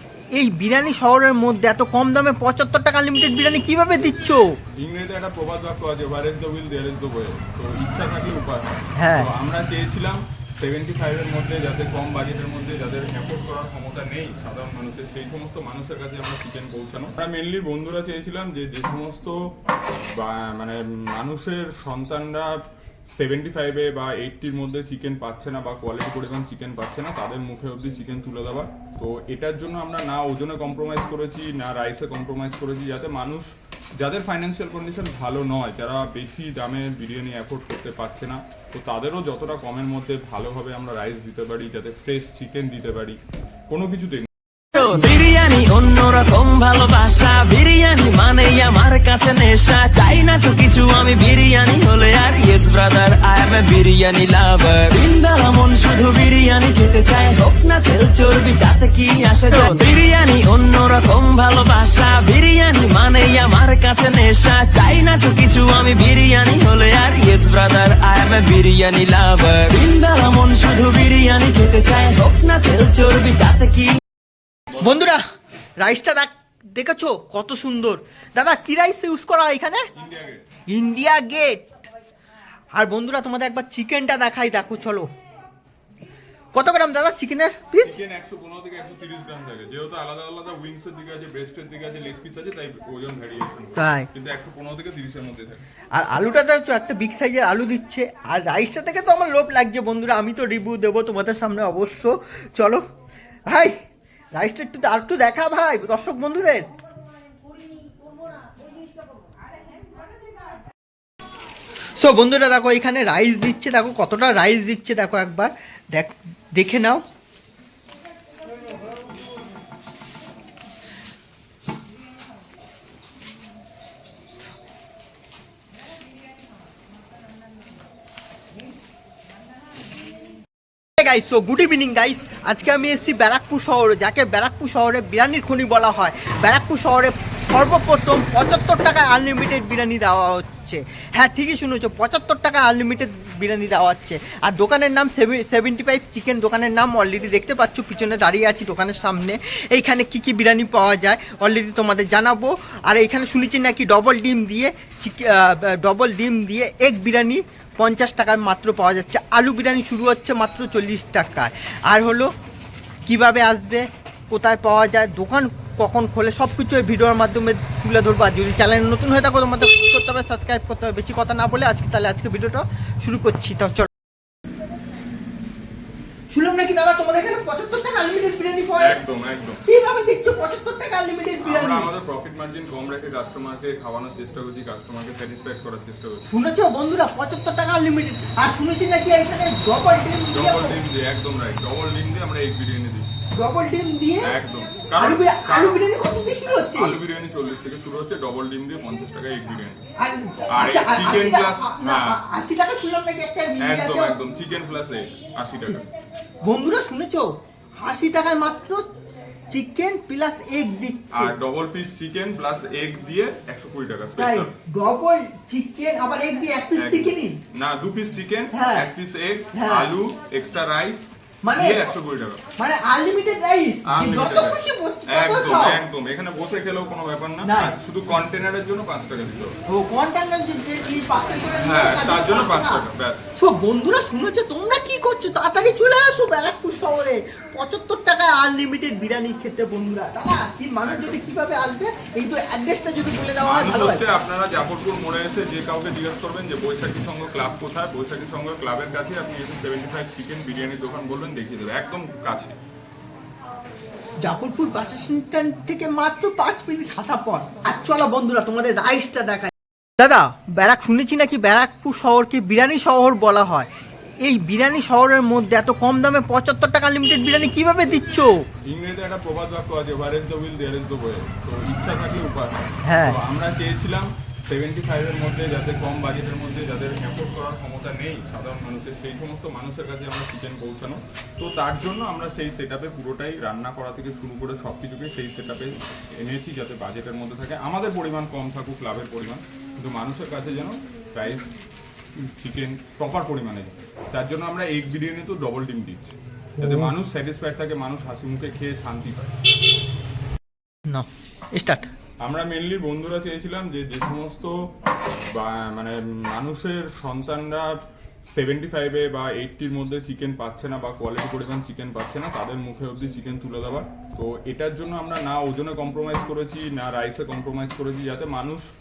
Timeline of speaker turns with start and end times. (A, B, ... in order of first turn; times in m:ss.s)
0:00.4-0:04.6 A
0:04.0-0:19.4 B
0:09.0-0:09.3 A
0:20.1-0:22.5 B
0:23.2-0:33.5 B
0:34.0-0:43.2 B
0:43.7-0:44.3 B
0:44.7-1:14.0 C
1:14.8-1:15.2 A
1:15.8-1:19.9 A
1:19.9-1:20.4 B
1:20.7-1:21.7 A
1:22.7-1:25.1 A
1:26.5-1:28.0 A
1:27.8-1:35.6 B
1:33.8-1:34.1 A
1:35.9-1:42.8 A
1:43.5-1:43.7 A
1:44.3-1:46.7 A
1:52.0-1:57.0 A
2:11.0-2:42.3 A
2:43.1-2:53.9 A
2:56.3-2:59.0 A
2:58.8-2:59.6 B
2:59.6-3:01.9 A
3:01.4-3:06.3 B
3:06.3-3:10.8 A
3:10.3-3:13.2 B
3:13.4-3:14.3 A
3:14.2-3:15.8 B
3:15.0-3:16.9 A
3:16.7-3:19.8 B
3:20.0-3:24.2 A
3:20.5-3:22.2 B
3:23.6-3:25.9 B
3:26.4-3:28.8 A
3:29.5-3:31.3 A
3:31.1-3:34.6 B
3:34.2-3:37.4 A
3:36.7-3:42.4 B
3:38.5-3:38.9 A
3:39.5-3:39.9 A
3:41.4-3:41.9 A
3:42.6-3:45.8 A
3:43.8-3:49.5 B
3:47.4-3:47.7 A
3:49.7-3:52.8 A
3:51.6-3:53.3 B
3:53.4-4:04.0 A
4:00.8-4:01.2 B
4:03.4-4:12.6 B
4:14.2-4:23.7 A
4:24.2-4:28.4 A
4:28.6-4:32.5 B
4:32.8-4:33.2 A
4:33.0-4:51.5 B
4:52.2-4:59.3 B
5:00.9-5:01.9 A
5:02.2-5:04.5 B
5:05.3-5:07.7 B
5:08.3-5:18.6 B